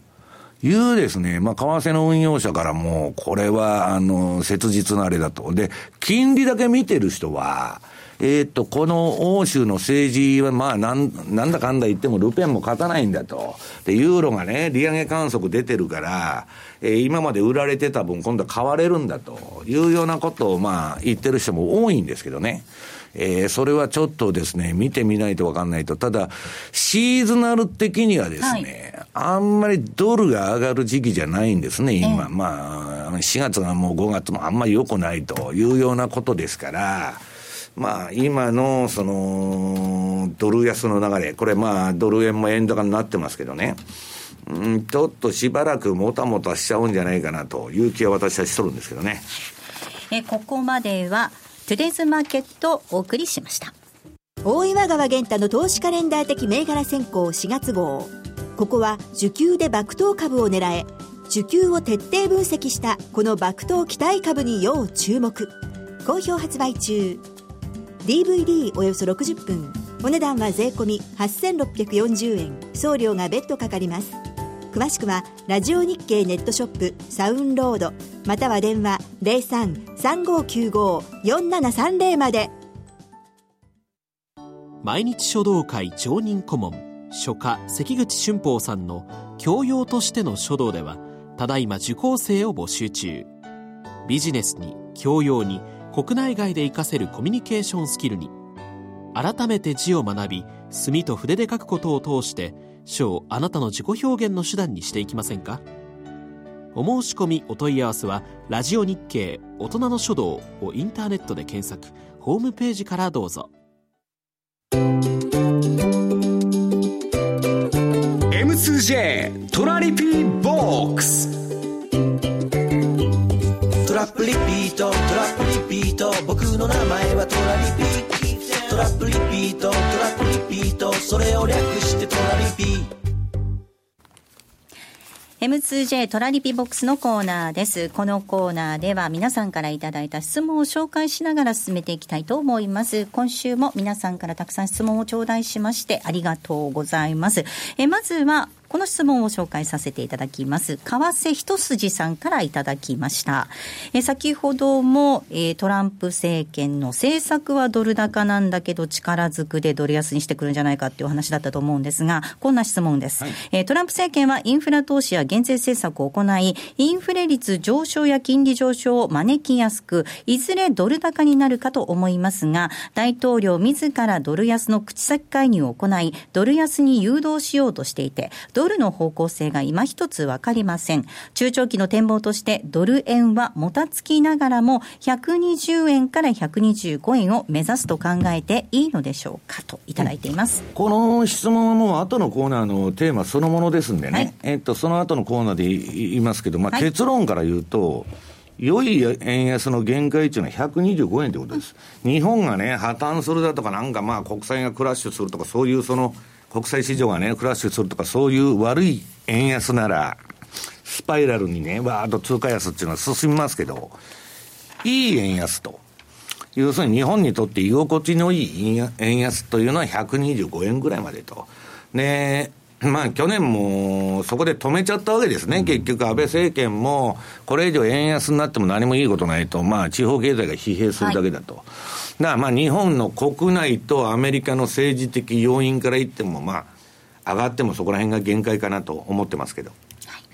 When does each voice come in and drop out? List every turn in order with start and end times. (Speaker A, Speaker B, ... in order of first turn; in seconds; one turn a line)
Speaker A: 0.6-37.2
Speaker B: 28.4-28.7
Speaker B: 32.0-32.3
Speaker A: 37.8-43.8
Speaker A: 44.5-49.2
Speaker B: 50.1-53.7
Speaker C: 54.4-67.2
Speaker C: 68.0-74.2
Speaker C: 74.7-82.5
Speaker D: 84.8-93.3
Speaker D: 94.0-98.3
Speaker D: 99.1-105.6
Speaker D: 106.7-113.5
Speaker E: 118.3-121.3
Speaker F: 123.8-132.9
Speaker B: 135.4-190.6
Speaker A: 190.7-210.2
Speaker A: 210.8-213.9
Speaker A: 214.8-215.8
Speaker A: 216.5-231.7
Speaker A: 232.2-236.7
Speaker A: 237.2-239.7